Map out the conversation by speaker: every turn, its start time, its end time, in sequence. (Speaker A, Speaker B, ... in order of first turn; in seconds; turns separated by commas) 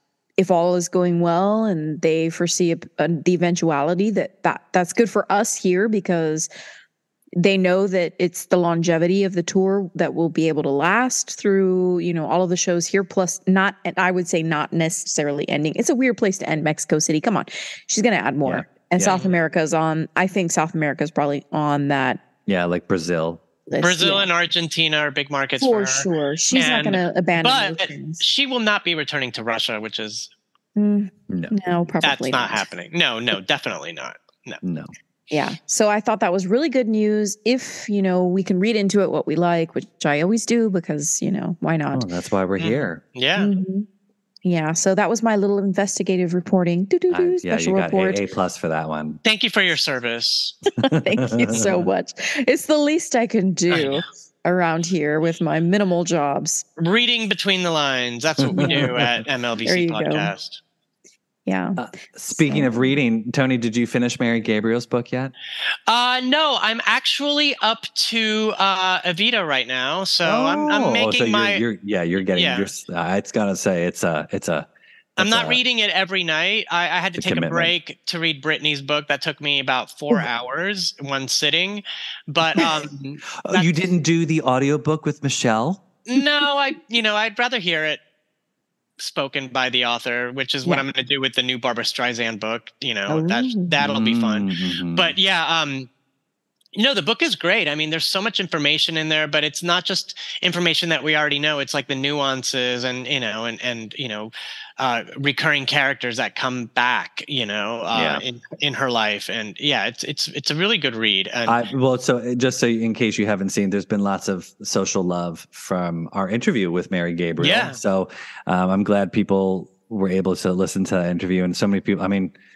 Speaker A: 0.4-6.5, Speaker A: 7.4-22.2, Speaker B: 18.4-19.2, Speaker C: 19.0-19.3, Speaker B: 22.4-23.4, Speaker A: 23.7-24.3, Speaker C: 23.8-30.3, Speaker A: 25.6-28.2, Speaker A: 30.8-32.6, Speaker C: 32.0-34.6, Speaker B: 34.6-34.9, Speaker A: 35.3-42.0, Speaker B: 41.9-43.0, Speaker C: 42.6-43.5, Speaker A: 43.4-43.9, Speaker A: 44.4-48.2, Speaker B: 47.1-49.2, Speaker C: 49.2-50.6, Speaker A: 50.8-56.6, Speaker B: 50.9-51.9, Speaker C: 53.7-54.0, Speaker C: 56.8-60.6, Speaker B: 58.4-59.2, Speaker A: 58.5-58.9, Speaker A: 59.6-60.3, Speaker A: 61.5-61.8, Speaker B: 61.8-65.3, Speaker A: 62.3-62.9, Speaker C: 65.9-71.6, Speaker B: 70.2-75.6, Speaker C: 72.3-72.7, Speaker C: 75.2-83.7, Speaker B: 77.1-77.7, Speaker B: 83.4-85.8, Speaker C: 86.0-88.0, Speaker C: 89.0-95.9, Speaker A: 93.1-93.7, Speaker B: 93.8-95.1, Speaker C: 96.7-111.6, Speaker B: 107.9-108.2, Speaker B: 111.5-122.3, Speaker C: 117.4-117.8